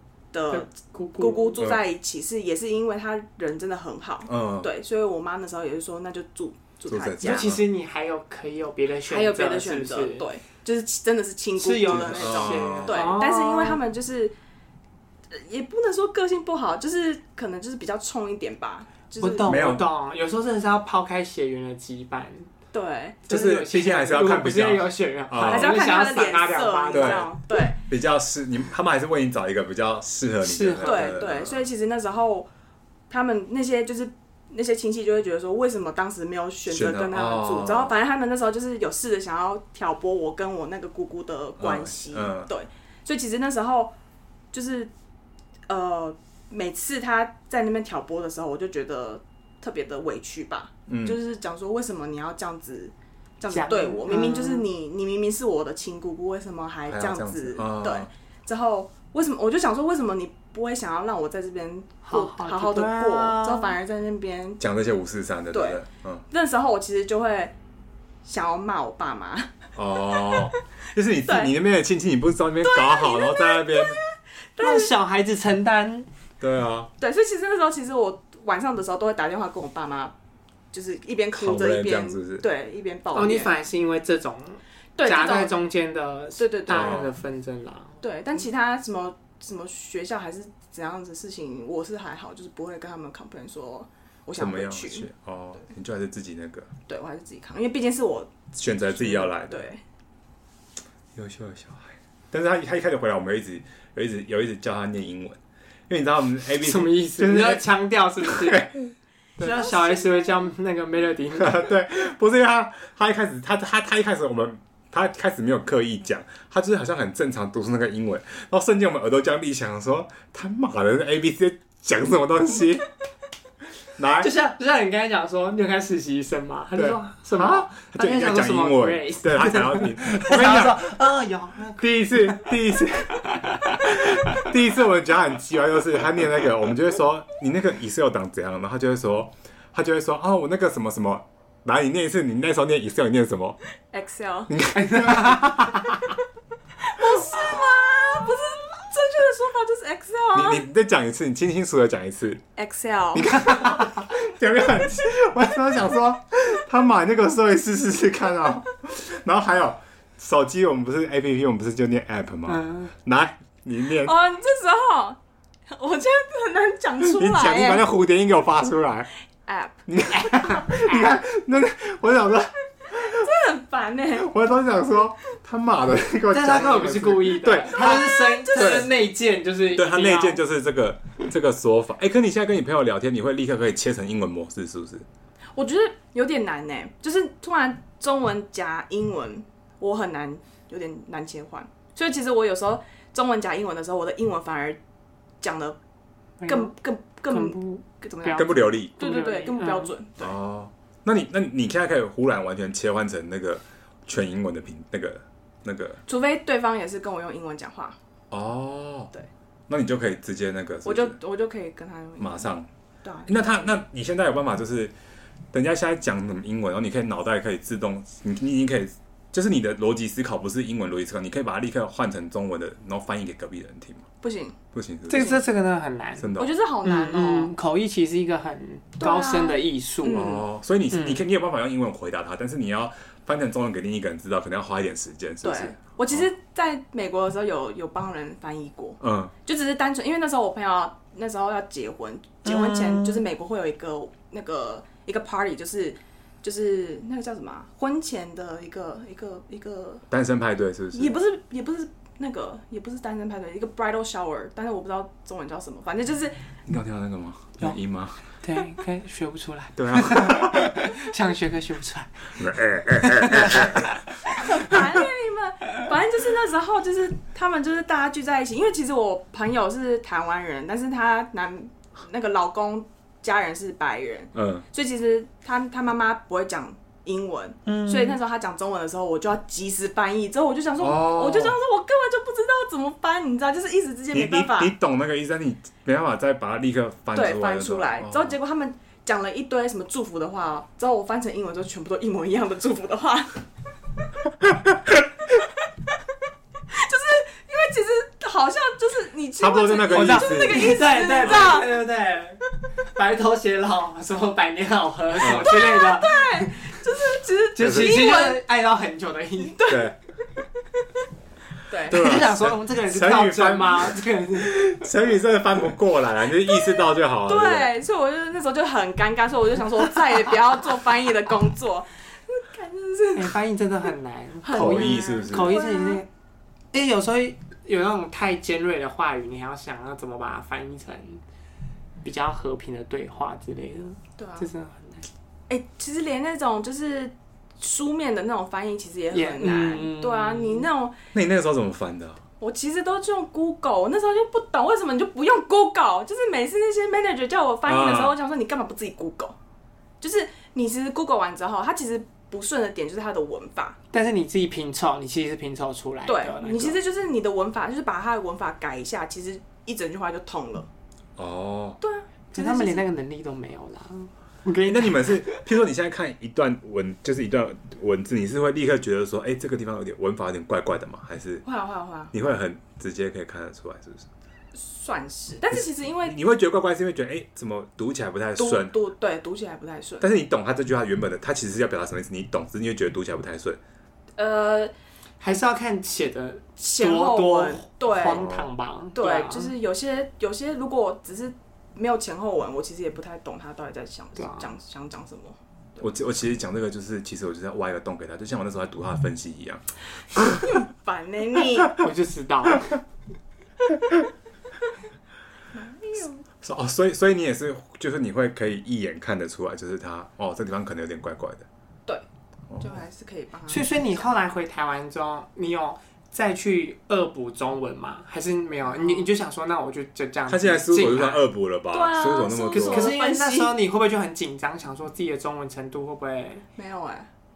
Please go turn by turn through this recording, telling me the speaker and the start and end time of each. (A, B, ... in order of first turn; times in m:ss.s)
0:00.3-0:07.5 A
0:00.5-0:01.6 B
0:04.2-0:04.7 C
0:06.9-0:07.6 C
0:07.2-0:10.3 B
0:09.1-0:14.3 A
0:11.6-0:13.8 B
0:11.9-0:13.1 C
0:15.3-0:19.5 A
0:19.2-0:22.5 B
0:19.4-0:19.9 C
0:22.7-0:23.3 A
0:23.3-0:25.7 C
0:23.3-0:27.3 B
0:25.4-0:27.8 A
0:26.9-0:27.3 C
0:27.8-0:31.6 C
0:30.4-0:31.1 B
0:30.8-0:32.5 A
0:33.1-0:43.9 A
0:36.7-0:37.9 C
0:41.6-0:42.5 C
0:44.5-0:44.9 A
0:45.7-1:04.6 A
0:50.9-0:51.2 C
0:53.5-0:54.7 B
0:56.9-0:58.1 C
1:02.0-1:03.8 B
1:04.6-1:06.2 C
1:05.5-1:07.5 A
1:08.2-1:10.5 A
1:09.7-1:14.0 C
1:11.2-1:11.5 A
1:12.7-1:14.0 A
1:14.6-1:14.9 A
1:14.6-1:16.1 B
1:16.4-1:16.9 C
1:17.0-1:20.1 A
1:20.7-1:23.5 A
1:21.4-1:22.4 C
1:23.1-1:28.0 B
1:25.0-1:25.6 A
1:26.4-1:27.1 A
1:26.7-1:27.1 C
1:28.0-1:35.1 A
1:34.4-1:36.7 C
1:36.9-1:39.8 A
1:38.5-1:39.7 C
1:41.1-1:47.6 C
1:46.6-1:48.7 B
1:48.2-1:48.7 C
1:49.4-1:51.7 B
1:49.4-1:50.4 A
1:51.4-2:02.8 C
2:04.0-2:04.3 C
2:04.2-2:12.5 B
2:06.8-2:10.9 C
2:11.8-2:23.6 C
2:13.3-2:14.4 B
2:23.9-2:24.6 A
2:24.5-2:25.8 C
2:24.7-2:25.8 B
2:26.8-2:30.6 A
2:30.3-2:32.4 C
2:32.6-2:33.3 A
2:33.1-2:44.1 C
2:33.4-2:33.9 B
2:42.5-2:42.9 B
2:44.0-2:47.9 A
2:47.0-2:49.1 C
2:49.4-2:49.7 A
2:49.9-2:53.3 C
2:50.3-2:51.1 B
2:52.9-2:54.3 A
2:54.1-2:58.9 C
2:56.3-3:00.4 B
2:57.7-2:58.9 A
2:59.7-3:05.0 C
3:05.6-3:14.8 A
3:15.4-3:15.8 A
3:16.4-3:16.7 B
3:16.4-3:20.4 A
3:17.3-3:19.9 B
3:18.3-3:18.9 C
3:20.2-3:26.0 C
3:26.0-3:28.0 A
3:28.3-3:29.1 C
3:29.7-3:31.2 C
3:30.8-3:32.5 A
3:32.2-3:32.7 C
3:33.0-3:33.7 A
3:33.3-3:34.9 C
3:35.5-3:44.0 C
3:44.2-3:44.6 A
3:44.7-3:45.4 C
3:45.1-3:50.2 B
3:45.1-3:45.4 A
3:46.2-3:46.5 C
3:46.4-3:47.5 A
3:49.0-3:50.4 A
3:50.1-3:56.3 C
3:50.9-3:51.2 B
3:55.4-4:10.0 A
3:59.0-3:59.3 C
4:02.4-4:03.3 B
4:10.1-4:11.2 C
4:10.9-4:16.5 A
4:16.6-4:18.2 C
4:18.3-4:24.0 B
4:19.8-4:20.9 C
4:22.4-4:24.0 C
4:24.2-4:44.7 A
4:34.3-4:34.6 C
4:37.6-4:38.2 B
4:40.8-4:41.6 C
4:44.1-4:48.3 C
4:47.1-4:53.4 A
4:56.7-5:01.7 A
4:59.4-5:01.5 C
4:59.9-5:06.7 B
5:05.2-5:05.5 C
5:05.2-5:08.4 A
5:07.5-5:09.6 B
5:07.6-5:08.0 C
5:09.4-5:09.9 A
5:09.7-5:10.0 C
5:11.7-5:12.1 A
5:11.9-5:17.7 C
5:11.9-5:14.8 B
5:17.2-5:23.4 A
5:23.2-5:26.1 B
5:24.4-5:26.0 A
5:24.5-5:25.6 C
5:26.7-5:31.2 B
5:32.0-5:35.1 B
5:34.2-5:34.5 A
5:35.5-5:41.0 A
5:39.1-5:40.7 B
5:41.1-5:42.2 C
5:42.4-5:49.4 A
5:47.6-5:48.2 C
5:50.0-5:53.8 A
5:53.9-5:56.8 B
5:56.0-6:00.7 A
6:01.2-6:01.8 C
6:01.8-6:02.8 A
6:02.3-6:05.4 B
6:04.6-6:11.4 C
6:11.4-6:12.1 A
6:12.1-6:14.1 C
6:14.5-6:16.2 A
6:16.0-6:18.8 C
6:18.4-6:20.1 A
6:20.0-6:23.6 C
6:24.2-6:24.7 A
6:25.2-6:29.5 B
6:26.6-6:28.3 A
6:28.1-6:28.5 C
6:28.9-6:35.8 A
6:34.2-6:34.5 B
6:35.8-6:40.6 C
6:40.3-6:41.8 A
6:41.7-6:42.8 B
6:45.5-6:46.2 A
6:46.4-6:51.5 C
6:52.6-6:53.6 A
6:53.5-7:01.3 B
6:58.7-6:59.1 A
7:00.3-7:02.9 C
7:01.7-7:03.5 A
7:02.5-7:06.4 B
7:06.6-7:07.1 A